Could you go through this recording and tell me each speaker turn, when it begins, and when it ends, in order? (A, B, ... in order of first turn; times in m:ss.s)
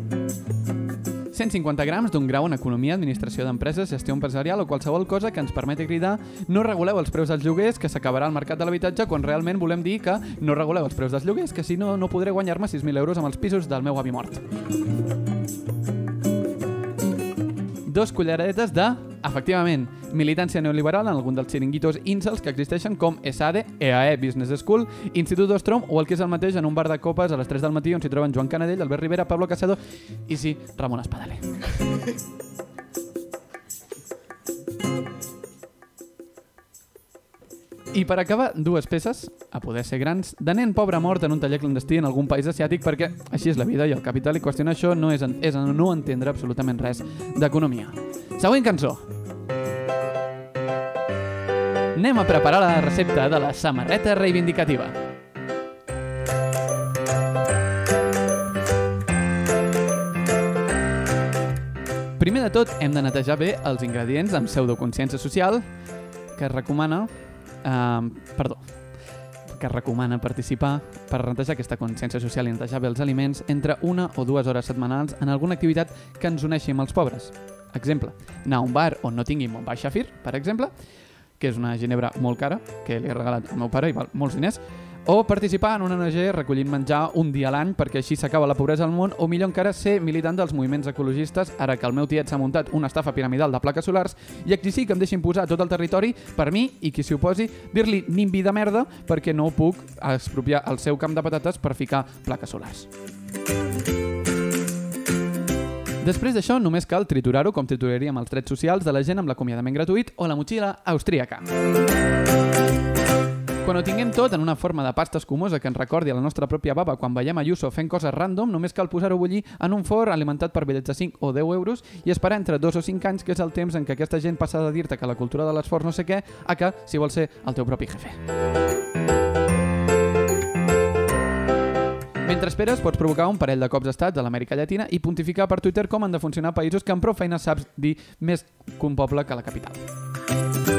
0:01.3-0:14.4 A
0:17.9-0:31.5 A
0:37.9-0:49.0 A
0:51.9-0:54.9 A
1:02.2-1:05.6 A
1:06.4-1:07.1 A
1:07.6-1:08.6 A
1:09.5-1:20.7 A
1:21.4-1:42.9 A
1:46.0-1:51.4 A
1:53.6-2:08.2 A
2:12.2-2:19.8 A